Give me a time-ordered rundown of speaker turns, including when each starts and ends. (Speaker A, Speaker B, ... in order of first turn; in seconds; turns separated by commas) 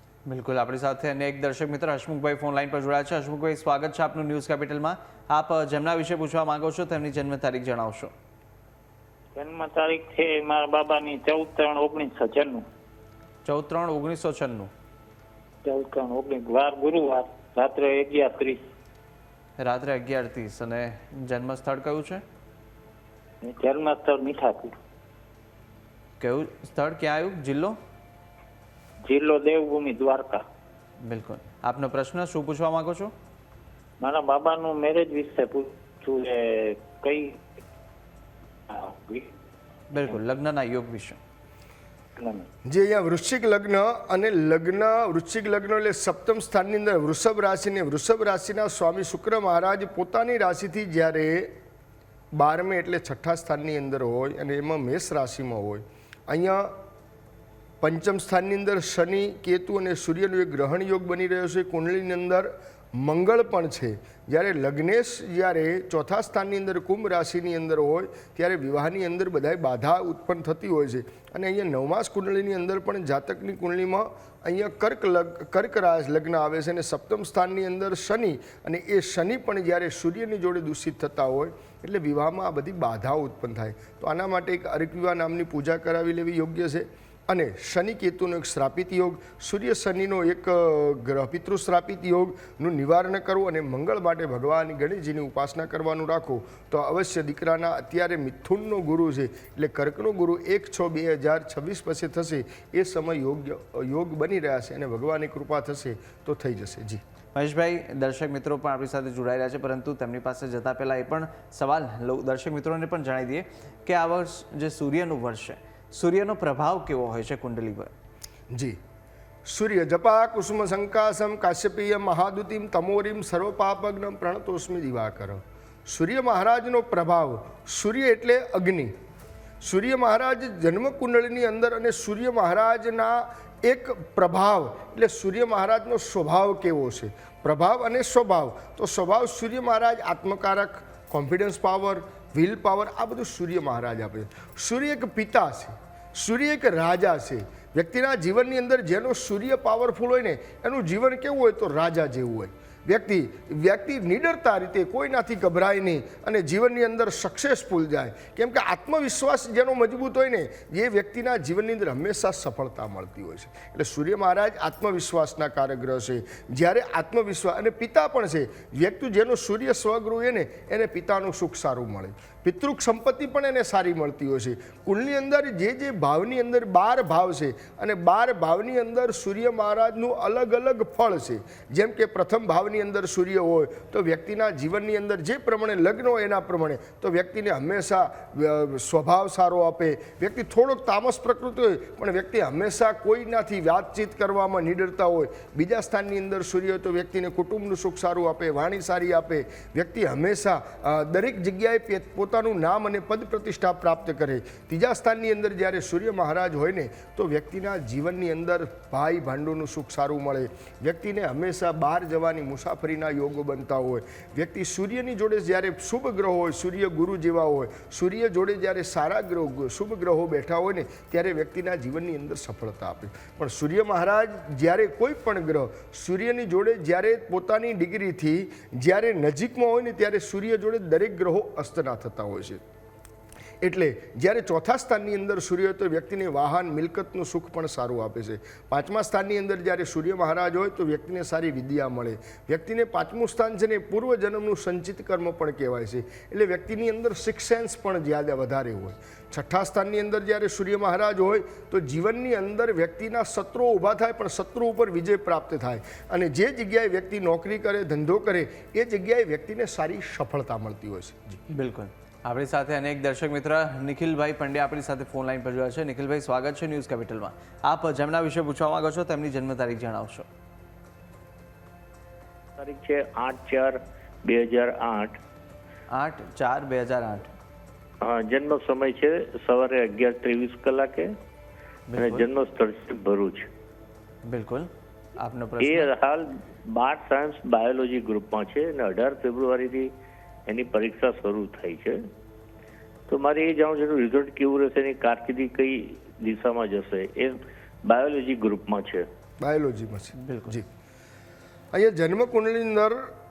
Speaker A: 0.3-8.1, Speaker B: 9.3-12.6, Speaker A: 13.4-14.7, Speaker B: 15.6-18.6, Speaker A: 19.6-22.2, Speaker B: 23.4-24.8, Speaker A: 26.2-27.8, Speaker B: 29.0-30.4, Speaker A: 31.0-33.1, Speaker B: 34.0-37.4, Speaker B: 38.7-39.3, Speaker A: 39.9-41.2, Speaker B: 42.2-42.5, Speaker C: 42.6-51.5, Speaker C: 52.3-56.7, Speaker C: 57.8-107.0, Speaker A: 107.3-117.9, Speaker C: 118.5-118.8, Speaker C: 119.5-128.9, Speaker C: 129.6-232.6, Speaker C: 233.6-261.4, Speaker A: 261.5-270.3, Speaker D: 272.6-275.2, Speaker A: 275.9-277.3, Speaker D: 278.0-281.1, Speaker A: 281.9-282.3, Speaker D: 282.0-283.5, Speaker A: 284.2-285.9, Speaker D: 285.6-289.9, Speaker D: 290.5-292.0, Speaker D: 293.1-299.1, Speaker C: 299.4-300.6, Speaker A: 300.2-300.6, Speaker C: 301.7-303.0